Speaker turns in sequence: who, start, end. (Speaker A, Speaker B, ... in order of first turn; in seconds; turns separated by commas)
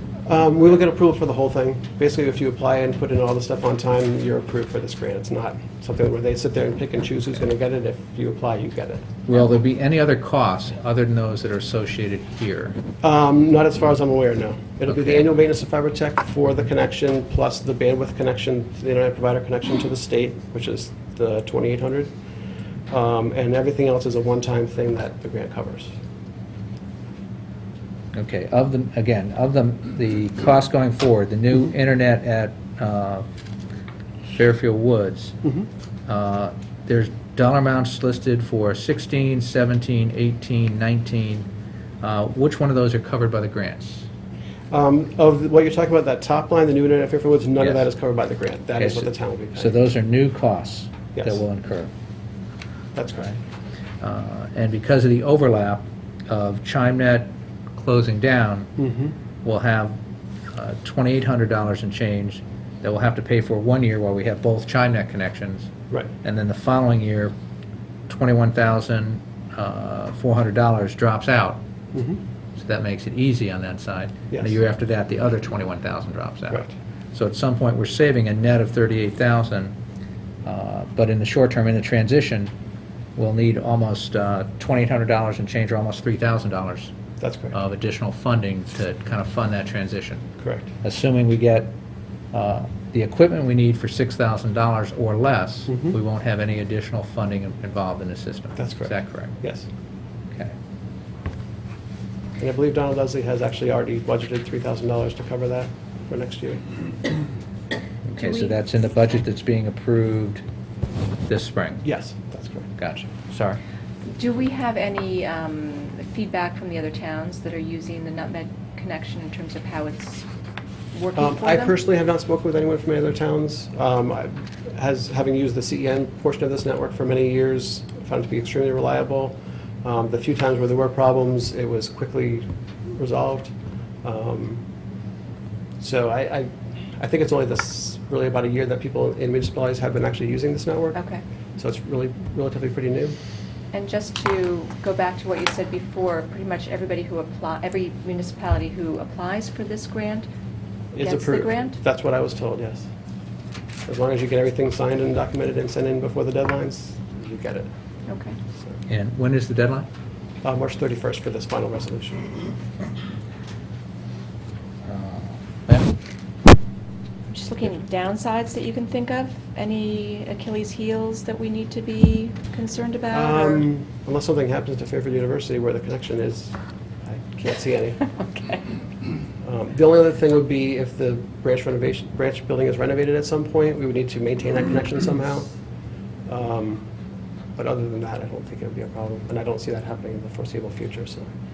Speaker A: 0.3-9.1, Speaker B: 9.3-12.8, Speaker A: 13.0-22.1, Speaker A: 22.9-25.9, Speaker B: 28.1-33.2, Speaker B: 34.3-35.4, Speaker B: 36.1-41.5, Speaker B: 42.0-44.1, Speaker A: 44.7-49.8, Speaker B: 47.6-47.9, Speaker B: 48.8-51.9, Speaker A: 51.1-51.4, Speaker A: 53.0-53.3, Speaker B: 54.0-58.7, Speaker A: 58.8-59.1, Speaker B: 59.4-60.0, Speaker B: 60.5-65.7, Speaker B: 66.2-67.3, Speaker B: 68.1-71.6, Speaker A: 71.9-72.2, Speaker B: 72.6-79.7, Speaker A: 74.3-74.5, Speaker B: 80.5-82.5, Speaker B: 83.2-86.9, Speaker A: 87.2-87.6, Speaker B: 87.5-90.2, Speaker A: 90.4-90.7, Speaker B: 90.8-91.7, Speaker B: 92.3-99.3, Speaker A: 95.7-95.9, Speaker A: 98.6-99.7, Speaker A: 102.4-106.6, Speaker B: 108.0-110.4, Speaker C: 108.2-108.5, Speaker B: 111.3-111.8, Speaker A: 111.8-112.7, Speaker B: 112.8-113.6, Speaker C: 114.1-120.2, Speaker C: 120.9-121.7, Speaker A: 121.2-134.6, Speaker A: 135.8-141.0, Speaker C: 140.9-141.2, Speaker A: 141.6-143.1, Speaker C: 143.7-150.3, Speaker A: 150.9-152.9, Speaker C: 151.0-151.8, Speaker A: 153.9-157.7, Speaker C: 158.1-158.4, Speaker B: 158.9-159.9, Speaker A: 160.4-162.4, Speaker B: 164.8-165.9, Speaker C: 167.3-173.7, Speaker A: 173.1-176.5, Speaker A: 177.1-178.0, Speaker C: 178.1-178.6, Speaker A: 179.4-185.5, Speaker A: 186.2-186.8, Speaker A: 187.6-191.3